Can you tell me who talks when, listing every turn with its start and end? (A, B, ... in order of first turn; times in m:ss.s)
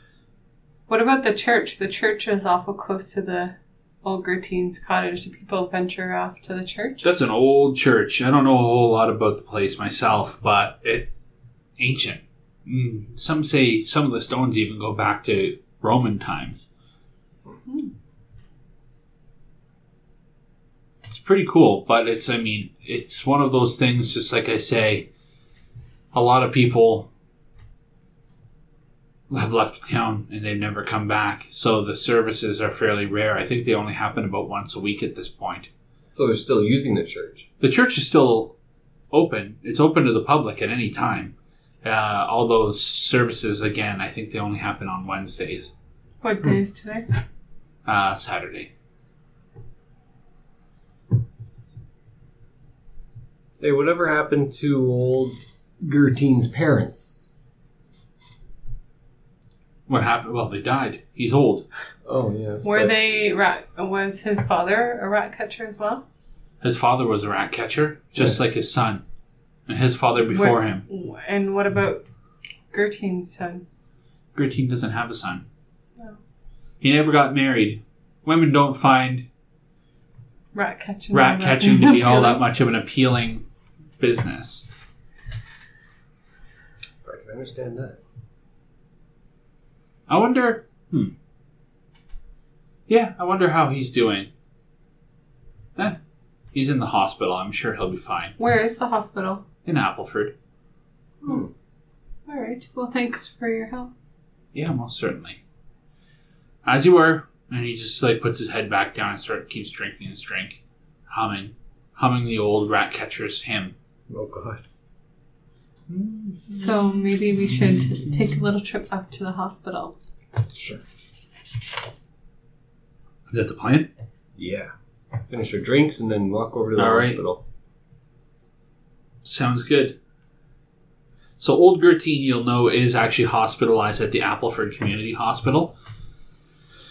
0:00.9-0:07.0 A
0:07.0-0:11.1 B
0:11.8-0:16.7 B
0:21.1-0:25.0 B
0:26.1-0:27.1 B
0:29.3-0:35.7 B
0:36.1-0:37.4 C
0:37.6-0:38.5 B
0:39.1-0:45.7 B
0:46.2-0:47.1 A
0:47.9-0:48.7 B
0:53.6-0:57.1 C
0:59.9-1:01.6 B
1:02.0-1:02.9 C
1:02.6-1:06.0 A
1:06.6-1:09.0 B
1:09.7-1:10.8 B
1:10.3-1:12.0 A
1:12.7-1:13.6 A
1:14.4-1:15.4 B
1:16.8-1:19.2 B
1:20.5-1:22.4 A
1:21.1-1:23.4 B
1:24.0-1:24.7 B
1:27.0-1:28.0 C
1:30.1-1:31.1 B
1:32.9-1:34.3 B
1:36.5-1:38.4 B
1:38.4-1:39.4 A
1:39.6-1:40.3 B
1:42.3-1:43.9 A
1:44.5-1:45.4 B
1:46.6-1:53.7 B
1:54.1-1:54.6 C
1:55.9-1:56.8 B
1:56.5-1:59.9 A
2:00.5-2:00.8 C
2:03.3-2:03.9 B
2:04.4-2:04.7 C
2:05.3-2:07.4 C
2:06.8-2:07.2 B
2:09.2-2:10.0 B
2:11.4-2:15.7 B